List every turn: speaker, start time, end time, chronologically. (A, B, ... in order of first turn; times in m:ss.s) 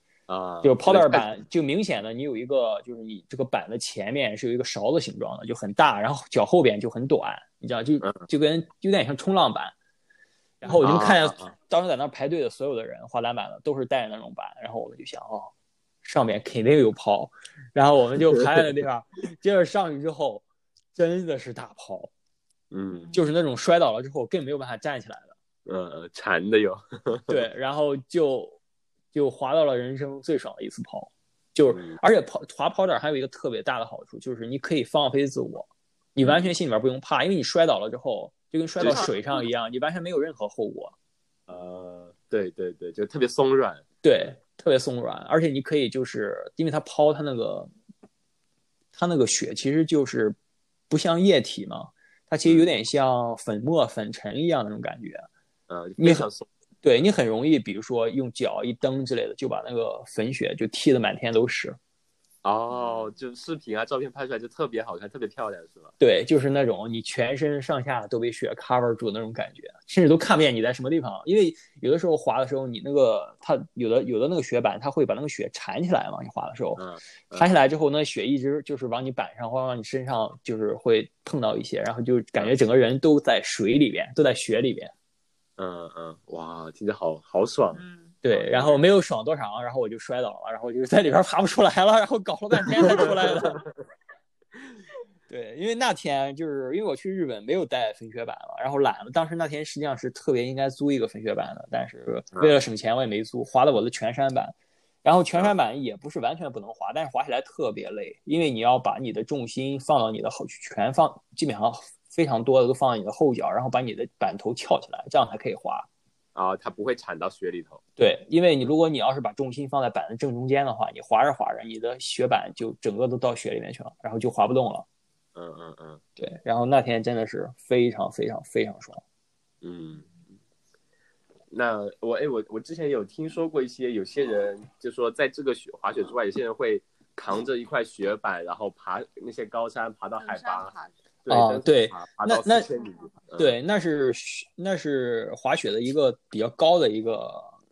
0:00.3-0:01.3 A
0:00.6-0:09.7 B
0:10.6-0:15.5 B
0:10.7-0:11.5 A
0:16.0-0:20.4 B
0:21.0-0:22.1 B
0:22.7-0:23.1 A
0:23.1-0:25.4 B
0:25.6-0:27.4 A
0:27.3-0:28.6 B
0:29.1-0:40.9 B
0:31.7-0:32.0 A
0:36.2-0:36.5 A
0:38.8-0:39.4 A
0:41.5-0:43.8 A
0:44.0-0:47.7 B
0:48.9-0:50.4 B
0:50.9-0:55.3 B
0:52.4-0:52.7 A
0:55.7-0:56.5 A
0:56.0-0:56.3 B
0:56.8-1:01.8 B
1:02.4-1:05.9 A
1:02.7-1:03.1 C
1:06.0-1:24.9 B
1:16.8-1:17.5 A
1:25.6-1:27.8 A
1:27.7-1:28.5 C
1:28.2-1:33.6 B
1:28.5-1:28.8 A
1:32.8-1:33.6 A
1:35.3-1:55.9 B
1:56.3-1:57.8 A
1:58.0-2:04.8 B
2:05.3-2:06.0 A
2:06.2-2:09.0 B
2:09.6-2:10.1 A
2:11.5-2:20.7 A
2:20.2-2:21.0 C
2:21.2-2:23.5 A
2:21.3-2:22.7 B
2:22.8-2:23.1 C
2:23.4-2:27.5 B